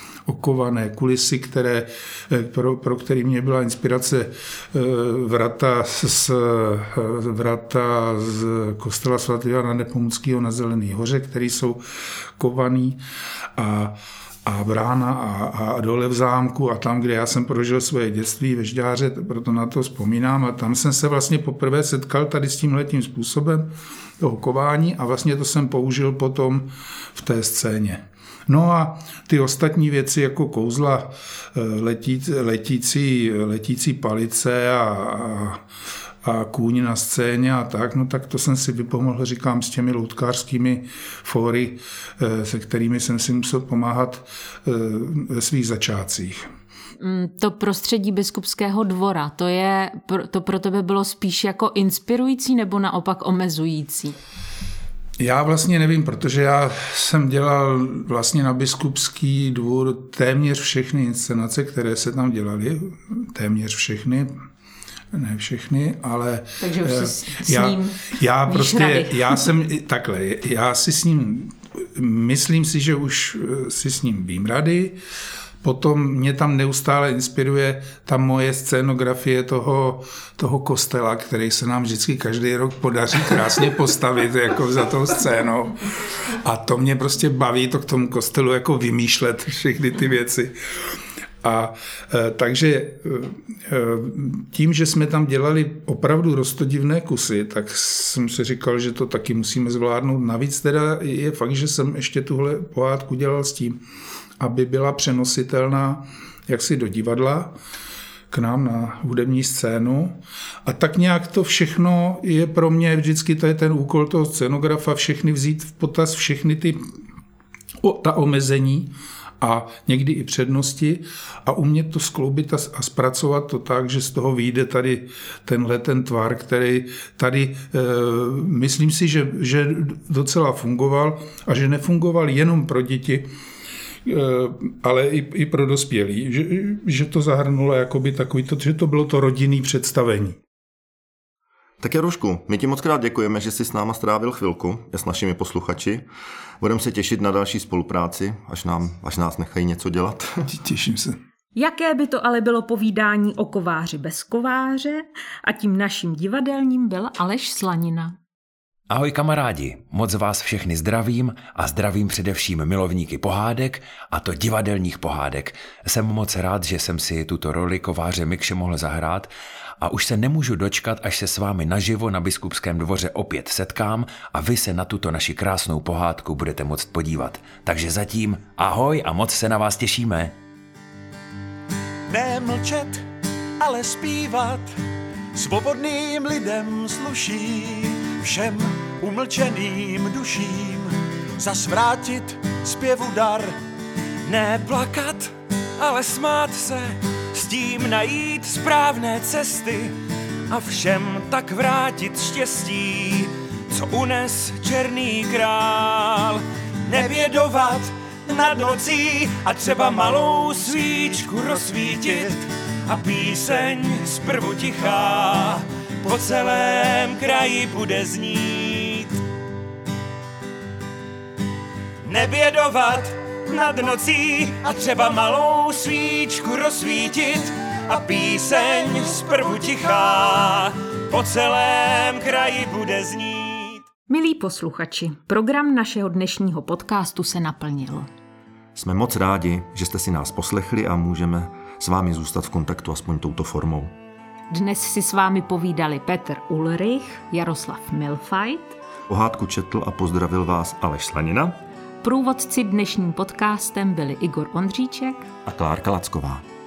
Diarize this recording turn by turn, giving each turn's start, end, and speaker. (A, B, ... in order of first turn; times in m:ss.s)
0:00.3-0:11.8 A
0:12.4-0:13.0 A
0:13.6-0:23.7 A
0:24.2-0:35.6 A
0:36.2-0:46.5 A
0:47.0-0:54.2 B
0:55.2-1:04.3 A
1:05.1-1:15.0 A
1:06.6-1:09.4 B
1:15.6-1:25.8 A
1:26.4-1:30.9 A
1:31.4-1:43.8 A
1:44.4-1:47.6 A
1:48.3-1:56.8 A
1:57.8-2:13.3 A
2:14.0-2:20.4 A
2:21.8-2:26.1 C
2:26.6-2:30.4 C
2:30.5-2:31.2 A
2:31.6-2:38.2 B
2:38.9-3:00.4 D
3:02.1-3:03.0 E
3:03.6-3:04.6 E
3:05.4-3:08.5 E
3:09.1-3:10.8 E
3:11.5-3:12.1 E
3:14.3-3:19.9 F
3:20.5-3:39.1 F
3:24.1-3:24.7 D
3:30.3-3:32.3 D
3:33.1-3:34.6 D
3:36.3-3:37.6 D
3:42.1-3:53.8 F
3:42.3-3:42.7 D
3:48.7-3:49.6 D
3:54.1-3:58.1 B
3:58.8-4:04.0 C
4:04.5-4:08.8 B
4:09.1-4:11.6 C
4:12.0-4:15.3 B
4:15.5-4:16.4 C